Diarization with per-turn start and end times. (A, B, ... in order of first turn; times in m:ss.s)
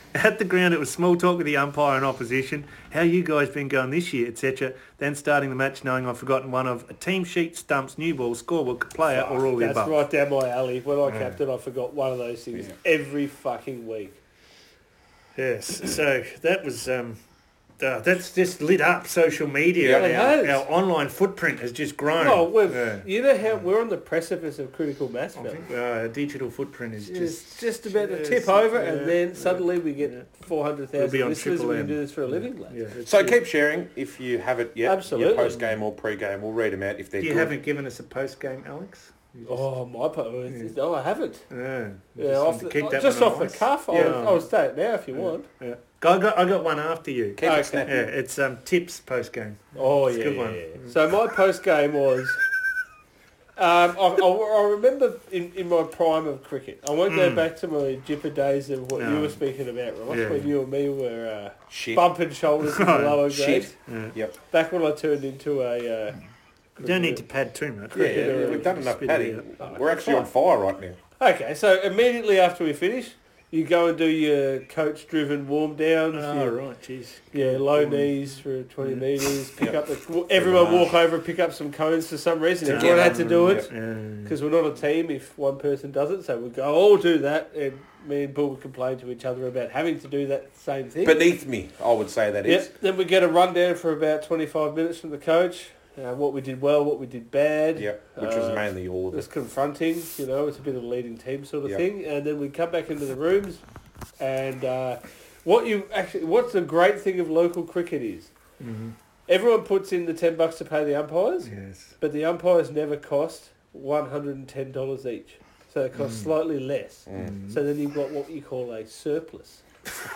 0:00.1-0:10.0 A
0:09.1-0:14.2 B
0:11.0-0:11.4 A
0:15.4-0:17.2 A
0:17.8-0:23.6 A
0:19.8-0:20.1 C
0:19.9-0:20.6 B
0:22.2-0:25.7 B
0:25.4-0:30.3 A
0:27.1-0:33.3 B
0:31.0-0:33.3 A
0:33.0-0:37.5 C
0:34.8-0:35.6 B
0:37.2-0:39.7 A
0:39.5-0:41.4 B
0:40.5-0:40.7 A
0:41.5-0:44.5 A
0:42.2-0:45.5 B
0:45.1-0:50.9 A
0:47.4-0:48.0 C
0:47.4-0:48.0 B
0:49.8-0:52.4 B
0:53.6-1:03.8 B
0:57.1-0:57.5 A
0:59.0-0:59.4 A
1:00.1-1:00.5 A
1:01.7-1:02.2 C
1:02.7-1:03.3 A
1:03.3-1:04.4 C
1:03.9-1:04.1 A
1:04.5-1:06.2 B
1:06.8-1:07.2 B
1:06.8-1:09.5 A
1:07.9-1:11.0 C
1:08.0-1:08.9 B
1:09.6-1:10.3 B
1:11.2-1:16.6 B
1:16.1-1:18.2 A
1:17.3-1:23.7 B
1:18.8-1:19.3 A
1:20.3-1:21.0 C
1:22.6-1:23.7 C
1:22.6-1:24.4 A
1:24.2-1:31.2 B
1:31.0-1:32.7 C
1:32.5-1:43.6 B
1:37.8-1:39.3 C
1:44.2-1:48.3 B
1:48.6-1:49.0 A
1:49.3-1:59.6 B
1:51.4-1:52.0 A
1:56.0-1:56.3 A
1:57.1-1:57.3 C
1:57.2-1:57.6 A